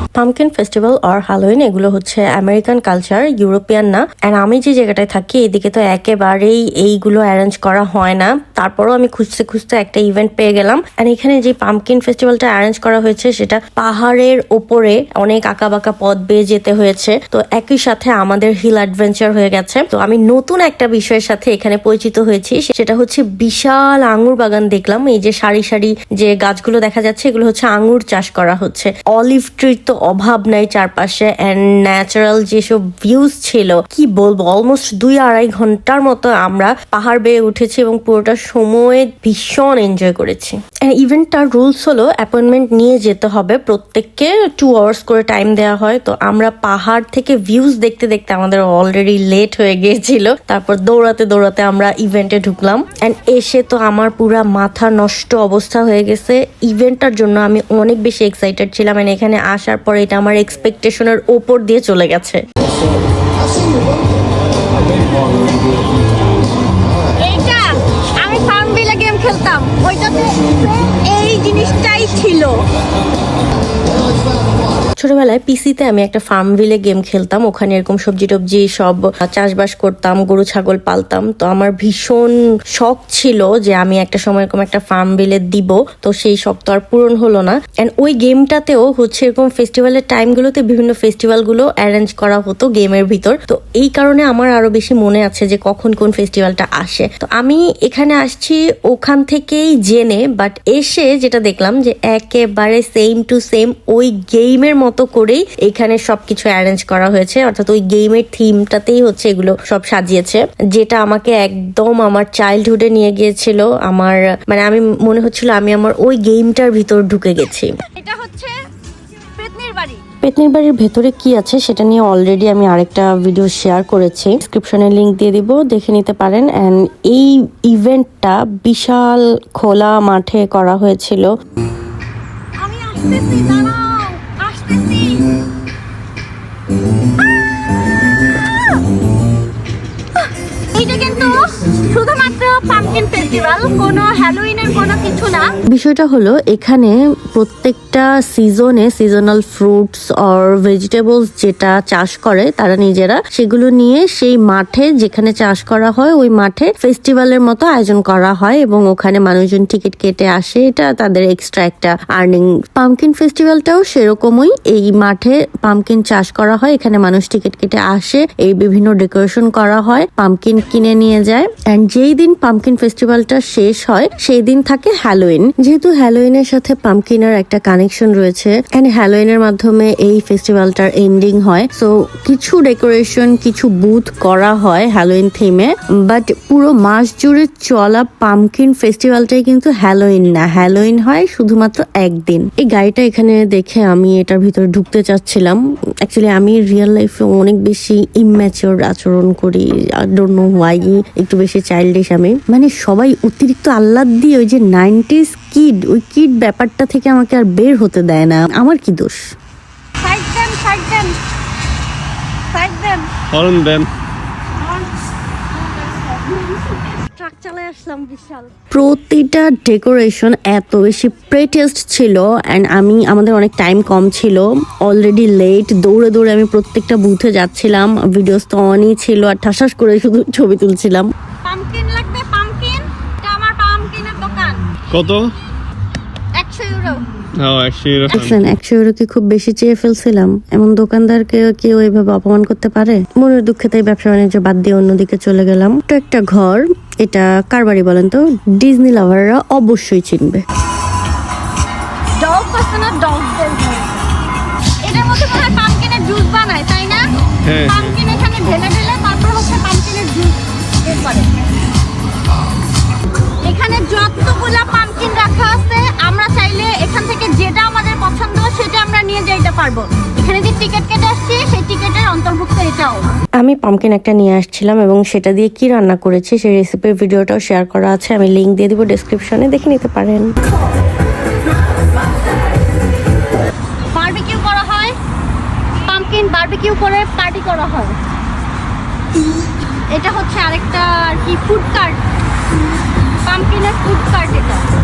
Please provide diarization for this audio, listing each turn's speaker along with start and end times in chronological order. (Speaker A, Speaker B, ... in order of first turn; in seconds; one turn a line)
Speaker A: 0.1-62.4
Speaker B: 67.2-67.6
Speaker B: 68.2-72.5
Speaker A: 75.0-117.7
Speaker B: 118.0-118.5
Speaker B: 119.4-120.0
Speaker A: 120.2-131.3
Speaker B: 132.6-135.1
Speaker B: 140.7-141.3
Speaker B: 141.9-145.4
Speaker A: 145.7-209.2
Speaker B: 210.0-211.1
Speaker B: 212.5-213.1
Speaker C: 213.3-213.9
Speaker B: 215.7-218.5
Speaker A: 218.7-231.1
Speaker B: 231.4-234.6
Speaker C: 234.9-235.3
Speaker B: 236.4-237.0
Speaker C: 237.3-238.3
Speaker A: 238.1-250.4
Speaker B: 252.2-254.0
Speaker B: 254.8-257.0
Speaker C: 257.4-257.7
Speaker B: 257.6-261.3
Speaker B: 263.4-273.1
Speaker A: 273.4-280.3
Speaker B: 283.9-284.9
Speaker B: 285.9-287.9
Speaker B: 289.9-292.0
Speaker B: 293.3-294.6